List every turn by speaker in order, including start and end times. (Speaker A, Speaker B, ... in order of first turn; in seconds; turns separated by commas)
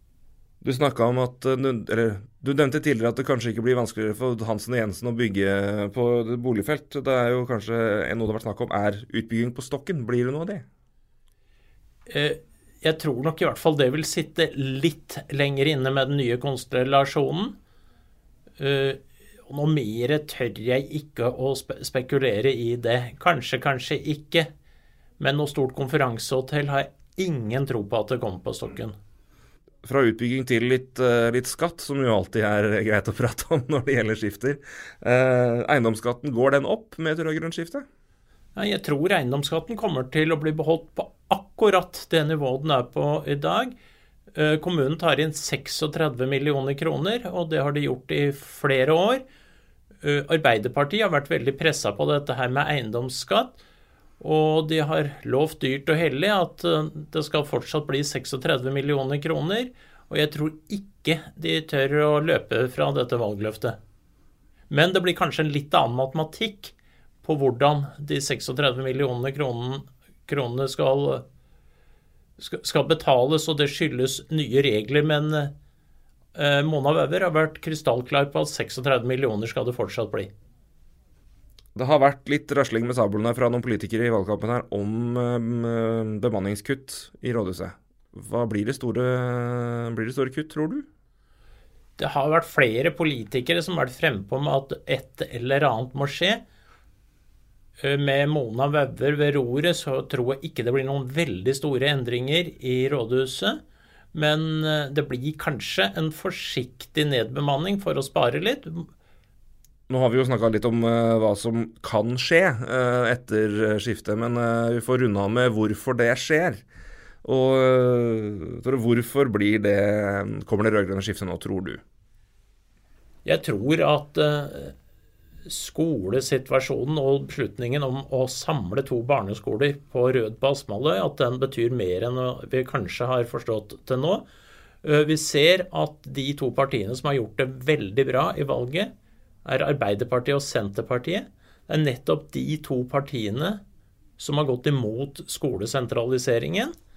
Speaker A: 0.6-10.7, Speaker B: 12.1-17.5, Speaker B: 18.6-24.5, Speaker B: 25.2-28.9, Speaker A: 29.9-37.9, Speaker B: 38.6-43.7, Speaker B: 44.3-49.2, Speaker B: 50.0-53.6, Speaker B: 54.2-63.8, Speaker B: 64.7-71.2, Speaker B: 72.4-75.5, Speaker B: 76.3-80.3, Speaker A: 81.8-90.9, Speaker B: 92.0-96.4, Speaker B: 97.8-103.6, Speaker B: 104.1-108.9, Speaker A: 109.9-116.6, Speaker A: 117.2-121.8, Speaker B: 123.2-124.7, Speaker B: 125.5-134.2, Speaker B: 134.8-138.9, Speaker B: 139.4-143.6, Speaker B: 144.2-146.7